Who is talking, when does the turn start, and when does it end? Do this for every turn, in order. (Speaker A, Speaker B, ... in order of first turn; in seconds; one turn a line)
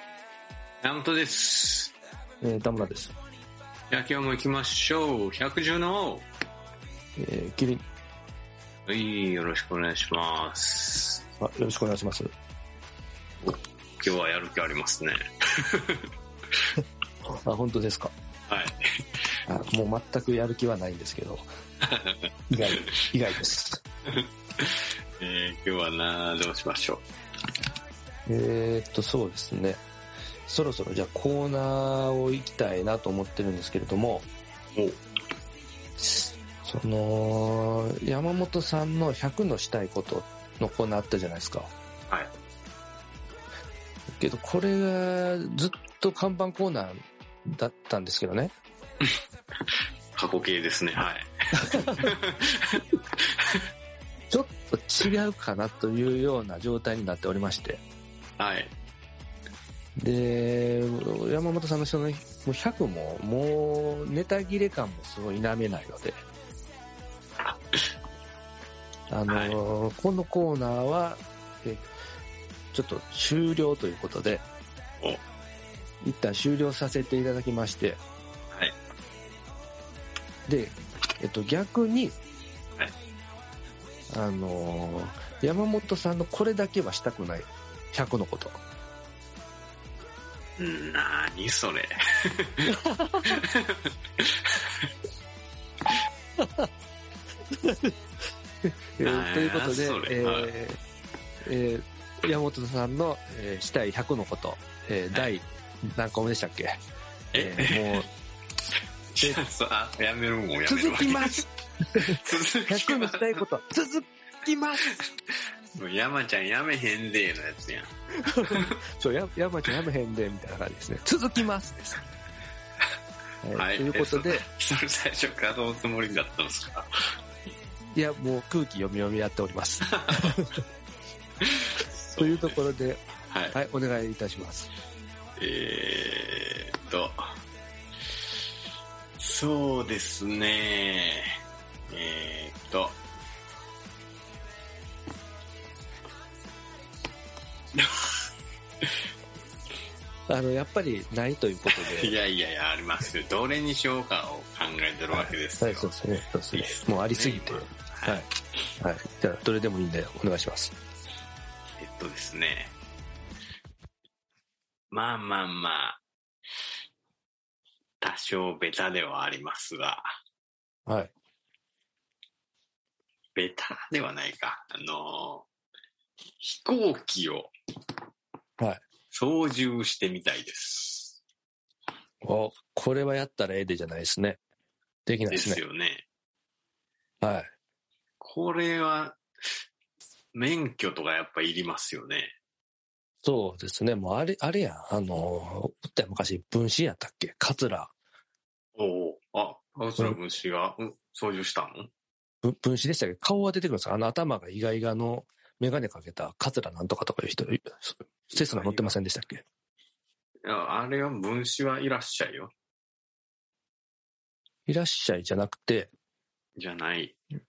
Speaker A: 0.8-1.9
Speaker B: 2.4-3.1
Speaker A: 3.9-6.2
Speaker B: 7.2-7.8
Speaker A: 8.9-11.2
Speaker B: 11.4-12.3
Speaker A: 13.4-16.1
Speaker B: 17.4-18.1
Speaker A: 18.5-19.0
Speaker B: 19.5-21.5
Speaker A: 21.9-22.3
Speaker B: 22.5-23.8
Speaker A: 24.1-27.0
Speaker B: 28.3-29.8
Speaker B: 30.5-34.3
Speaker B: 36.0-41.7
Speaker B: 44.2-48.5
Speaker A: 50.1-53.6
Speaker B: 51.6-52.1
Speaker B: 54.3-57.8
Speaker A: 58.4-58.7
Speaker B: 60.0-66.2
Speaker A: 67.5-67.9
Speaker B: 69.1-71.9
Speaker A: 69.3-69.6
Speaker B: 72.7-74.4
Speaker B: 76.0-78.0
Speaker B: 80.5-82.2
Speaker B: 84.1-88.6
Speaker A: 90.6-92.7
Speaker B: 92.7-93.3
Speaker A: 93.2-94.7
Speaker B: 96.4-96.7
Speaker B: 97.5-97.9
Speaker B: 98.7-100.8
Speaker A: 99.0-100.5
Speaker B: 101.4-106.8
Speaker A: 107.3-108.1
Speaker B: 107.4-108.1
Speaker A: 109.1-111.5
Speaker B: 110.7-114.8
Speaker A: 112.0-113.4
Speaker A: 115.8-117.9
Speaker B: 118.2-122.0
Speaker A: 118.5-118.8
Speaker B: 123.4-124.5
Speaker A: 123.5-126.9
Speaker B: 128.0-130.6
Speaker A: 129.9-130.3
Speaker A: 131.4-132.7
Speaker B: 132.2-134.7
Speaker A: 133.3-133.6
Speaker A: 135.4-137.2
Speaker A: 139.2-141.3
Speaker A: 141.9-143.0
Speaker A: 147.8-148.1
Speaker B: 150.3-152.2
Speaker A: 151.7-155.9
Speaker B: 155.1-158.3
Speaker A: 156.5-158.2
Speaker B: 158.8-160.7
Speaker A: 161.8-162.8
Speaker A: 164.9-166.0
Speaker A: 168.0-170.1
Speaker B: 170.9-171.1
Speaker A: 173.3-175.5
Speaker A: 176.4-177.5
Speaker A: 179.1-181.2
Speaker B: 182.2-184.4
Speaker B: 185.1-185.6
Speaker A: 185.3-186.1
Speaker B: 187.2-187.5
Speaker A: 188.2-189.2
Speaker A: 190.3-192.3
Speaker B: 193.2-197.9
Speaker A: 198.8-201.9
Speaker B: 202.4-209.4
Speaker A: 208.3-208.9
Speaker A: 210.4-212.5
Speaker B: 214.7-215.9
Speaker A: 216.6-217.2